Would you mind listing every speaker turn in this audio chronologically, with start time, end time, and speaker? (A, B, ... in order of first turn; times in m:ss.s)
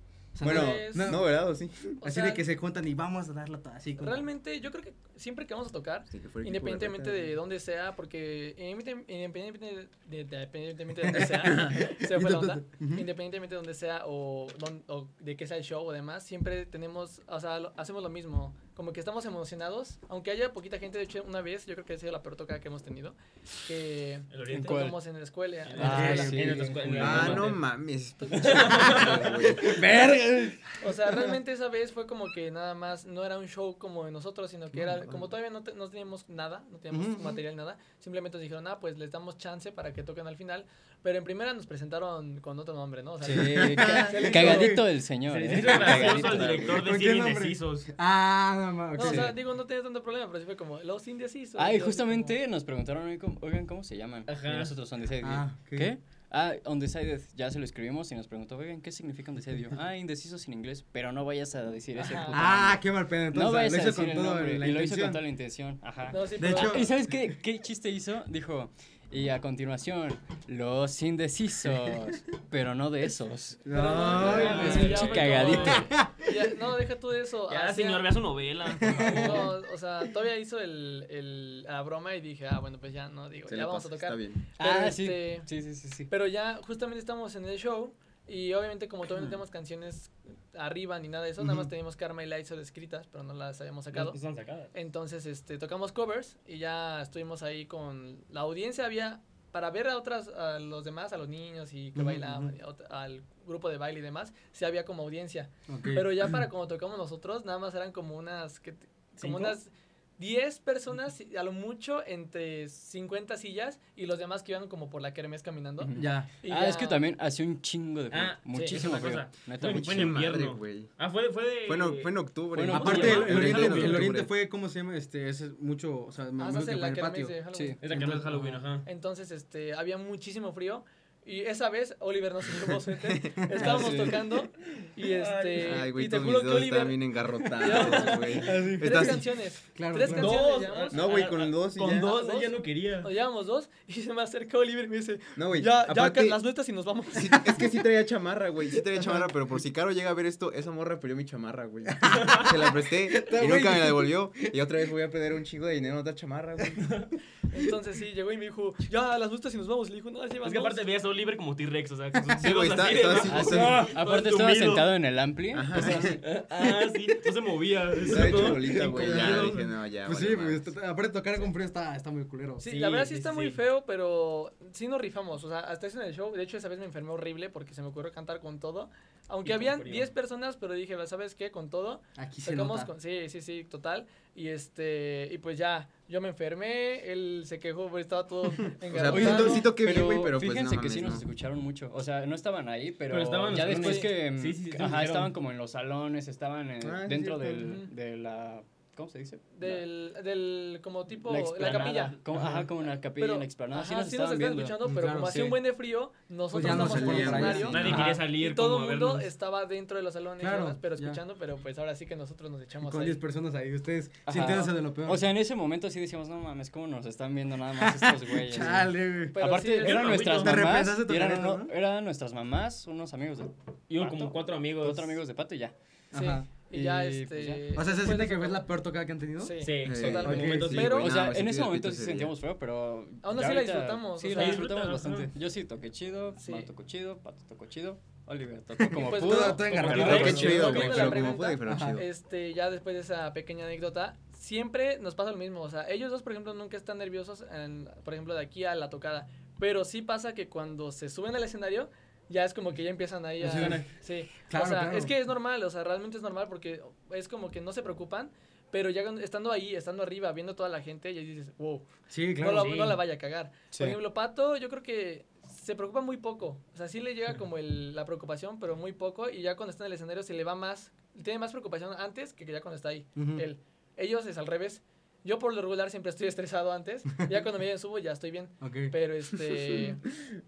0:00.3-0:01.4 A
0:00.4-0:02.0 B
0:00.4-0:01.2 C
0:02.0-0:02.4 C
0:02.0-0:04.3 A
0:04.0-0:26.3 C
0:06.1-0:07.4 B
0:11.0-0:13.0 A
0:24.3-0:24.8 D
0:24.5-0:25.0 E
0:25.6-0:27.6 D
0:25.8-0:27.5 E
0:25.8-0:27.4 A
0:26.9-0:29.9 B
0:28.2-0:29.1 C
0:28.3-0:29.5 D
0:29.6-0:31.3 A
0:30.8-0:44.8 C
0:34.9-0:35.3 B
0:36.9-0:37.4 A
0:43.2-0:46.8 E
0:43.5-0:44.9 A
0:45.3-0:47.9 D
0:45.7-0:46.8 B
0:46.7-0:49.4 A
0:48.9-0:52.3 C
0:49.0-0:49.3 E
0:51.6-1:16.0 E
0:54.3-0:54.7 D
0:55.2-0:55.9 A
1:01.9-1:02.3 C
1:02.3-1:05.2 A
1:06.1-1:06.9 C
1:06.4-1:06.9 A
1:13.6-1:15.0 A
1:13.7-1:18.1 C
1:14.2-1:15.9 D
1:15.7-1:16.4 A
1:17.5-1:19.5 D
1:18.7-1:19.5 A
1:19.0-1:25.5 C
1:23.5-1:24.5 B
1:24.6-1:26.1 E
1:26.1-1:34.2 C
1:31.4-1:31.7 A
1:33.9-1:34.7 D
1:34.7-1:57.0 C
1:41.9-1:42.5 A
1:45.7-1:46.4 A
1:49.2-1:49.6 A
1:55.8-2:00.2 E
1:55.9-1:56.3 A
1:58.1-2:04.0 D
1:58.5-1:58.8 C
1:59.6-2:00.9 B
2:01.6-2:04.3 B
2:02.5-2:04.0 E
2:02.7-2:07.4 A
2:06.4-2:07.8 C
2:07.5-2:07.8 E
2:07.8-2:08.8 D
2:07.9-2:08.6 A
2:08.8-2:27.7 C
2:13.3-2:14.1 A
2:13.6-2:14.2 E
2:15.0-2:15.9 D
2:15.6-2:19.3 B
2:17.7-2:18.4 D
2:18.4-2:20.4 A
2:20.0-2:23.1 D
2:20.9-2:22.1 B
2:25.4-2:26.4 B
2:27.1-2:36.9 B
2:31.9-2:34.6 A
2:32.0-2:32.5 D
2:36.8-2:37.1 D
2:37.5-2:40.8 C
2:40.4-2:44.9 D
2:42.4-2:43.9 B
2:43.2-2:46.2 E
2:45.5-2:46.2 B
2:45.8-2:49.7 D
2:48.0-2:50.7 B
2:48.1-2:49.4 A
2:50.0-2:52.6 A
2:52.6-3:09.7 C
2:52.6-2:53.6 D
2:59.4-3:00.1 D
3:02.2-3:02.9 A
3:08.9-3:11.2 B
3:09.1-3:19.8 E
3:13.1-3:15.3 D
3:13.6-3:14.1 C
3:16.8-3:17.6 B
3:17.5-3:17.9 C
3:19.5-3:22.2 C
3:21.2-3:25.6 E
3:21.6-3:22.2 D
3:22.3-3:22.7 A
3:23.1-3:33.2 C
3:24.8-3:25.5 A
3:26.5-3:28.2 A
3:26.6-3:28.0 B
3:27.7-3:29.3 D
3:30.4-3:31.2 A
3:32.8-3:35.2 A
3:34.2-3:45.7 E
3:37.8-3:39.4 A
3:39.3-3:40.2 C
3:39.8-3:40.7 D
3:40.2-3:41.7 A
3:43.9-3:45.2 D
3:46.1-3:46.5 A
3:46.1-3:48.6 C
3:46.7-3:47.8 E
3:47.7-3:49.6 A
3:49.4-3:51.1 C
3:49.6-3:51.0 D
3:49.8-3:52.3 B
3:50.2-3:50.7 A
3:50.8-4:00.7 E
3:53.2-3:54.7 C
3:54.3-3:55.3 D
3:56.4-3:56.7 C
3:58.8-4:02.0 A
3:59.0-4:40.0 C
3:59.6-4:01.2 D
3:59.9-4:02.1 B
4:13.4-4:13.8 A
4:13.5-4:13.9 D
4:14.5-4:15.1 A
4:22.1-4:22.9 A
4:22.6-4:22.9 D
4:23.7-4:24.0 E
4:33.2-4:33.4 A
4:38.6-4:38.9 A